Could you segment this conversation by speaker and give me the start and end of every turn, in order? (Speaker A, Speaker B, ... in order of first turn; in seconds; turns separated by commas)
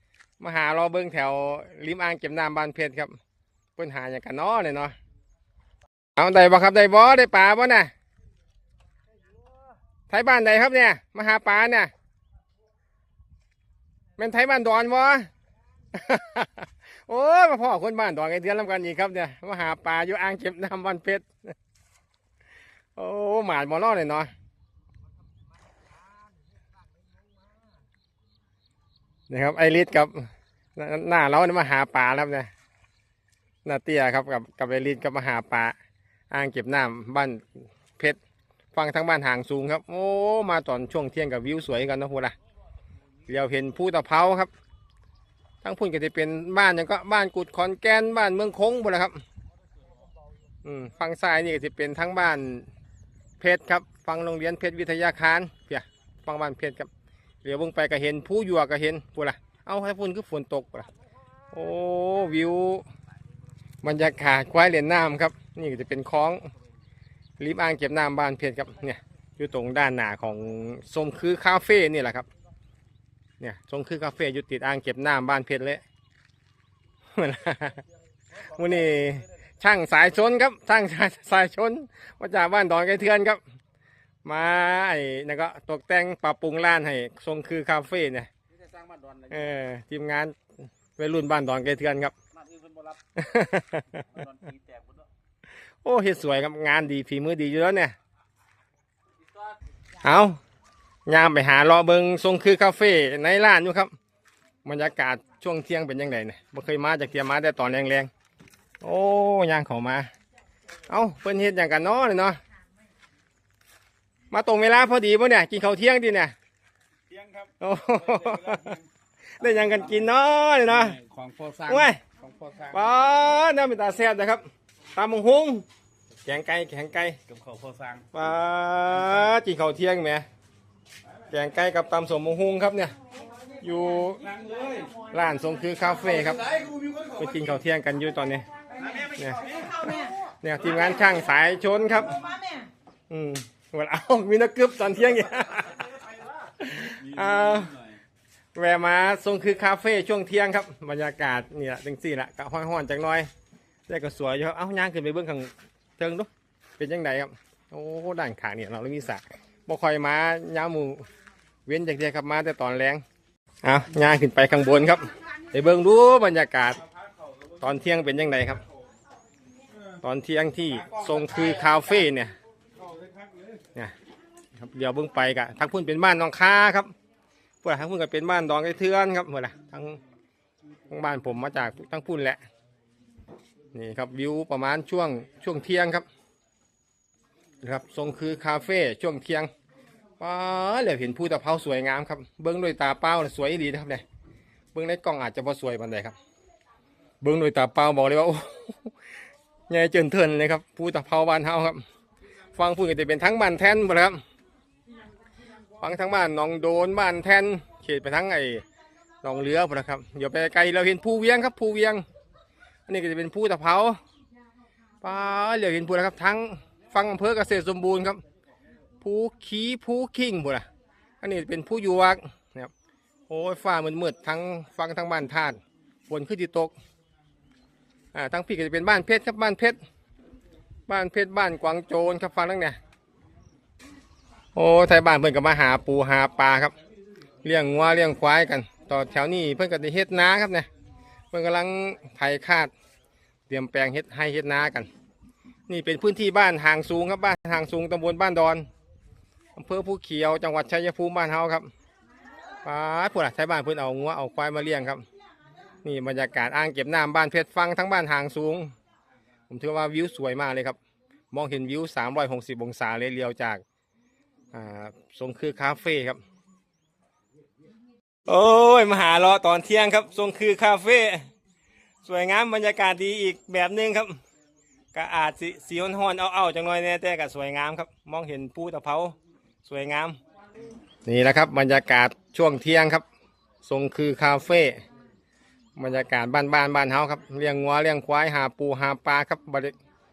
Speaker A: 0.4-3.2, Speaker A: 3.8-4.9, Speaker A: 6.2-7.9, Speaker A: 10.1-11.9, Speaker A: 14.2-15.3, Speaker A: 15.9-21.3, Speaker A: 22.9-24.3, Speaker A: 29.3-32.5, Speaker A: 33.6-35.7, Speaker A: 36.3-38.2, Speaker A: 38.7-42.3, Speaker A: 43.3-44.5, Speaker A: 45.6-49.2, Speaker A: 50.6-52.7, Speaker A: 53.4-56.9, Speaker A: 57.4-60.9, Speaker A: 61.5-62.9, Speaker A: 63.8-66.4, Speaker A: 67.4-72.3, Speaker A: 73.4-75.8, Speaker A: 77.1-77.8, Speaker A: 78.4-83.4, Speaker A: 84.2-88.3, Speaker B: 88.7-89.3, Speaker A: 89.3-90.3, Speaker A: 91.0-92.1, Speaker B: 92.5-92.9, Speaker A: 93.2-94.2, Speaker B: 94.3-94.8, Speaker A: 95.8-97.9, Speaker A: 100.0-100.4, Speaker A: 101.1-103.9, Speaker A: 104.6-108.1, Speaker A: 108.8-110.1, Speaker A: 110.9-112.4, Speaker A: 114.3-116.3, Speaker B: 117.1-117.5, Speaker A: 117.6-118.8, Speaker B: 118.1-118.8, Speaker A: 119.4-121.0, Speaker B: 120.9-122.7, Speaker A: 121.7-122.0, Speaker A: 122.7-125.6, Speaker A: 126.2-127.2, Speaker B: 127.3-128.1, Speaker A: 128.1-130.2, Speaker A: 131.3-132.9, Speaker A: 133.6-134.3, Speaker B: 134.2-134.9, Speaker A: 135.1-136.5, Speaker B: 136.6-137.1, Speaker A: 137.2-138.5, Speaker A: 139.0-142.3, Speaker A: 143.1-145.9, Speaker A: 146.6-147.8, Speaker A: 148.5-153.3, Speaker A: 153.9-161.0, Speaker A: 161.7-163.0, Speaker A: 163.6-166.8, Speaker A: 167.6-168.6, Speaker A: 170.0-172.3, Speaker B: 172.8-173.5, Speaker A: 174.6-176.9, Speaker A: 177.6-180.0, Speaker A: 180.9-182.4, Speaker A: 183.7-186.1, Speaker A: 187.6-189.5, Speaker A: 190.2-194.0, Speaker A: 194.7-196.1, Speaker A: 197.2-198.9, Speaker A: 199.7-201.8, Speaker A: 202.5-204.2, Speaker A: 205.8-208.6, Speaker A: 209.2-212.0, Speaker A: 212.9-214.0, Speaker A: 215.0-218.2, Speaker A: 219.0-220.7, Speaker A: 221.2-222.7, Speaker A: 223.3-226.7, Speaker A: 228.1-229.8, Speaker A: 230.9-232.8, Speaker A: 234.5-236.7, Speaker A: 237.4-240.7, Speaker A: 241.3-242.7, Speaker A: 243.5-244.9, Speaker A: 245.7-248.7, Speaker A: 249.6-251.7, Speaker A: 252.6-255.0, Speaker A: 255.8-258.7, Speaker A: 259.5-260.8, Speaker A: 261.3-263.6, Speaker A: 264.5-266.2, Speaker A: 268.3-271.3, Speaker A: 272.0-274.2, Speaker A: 274.9-280.2, Speaker A: 281.1-283.0, Speaker A: 283.6-284.8, Speaker A: 285.8-289.7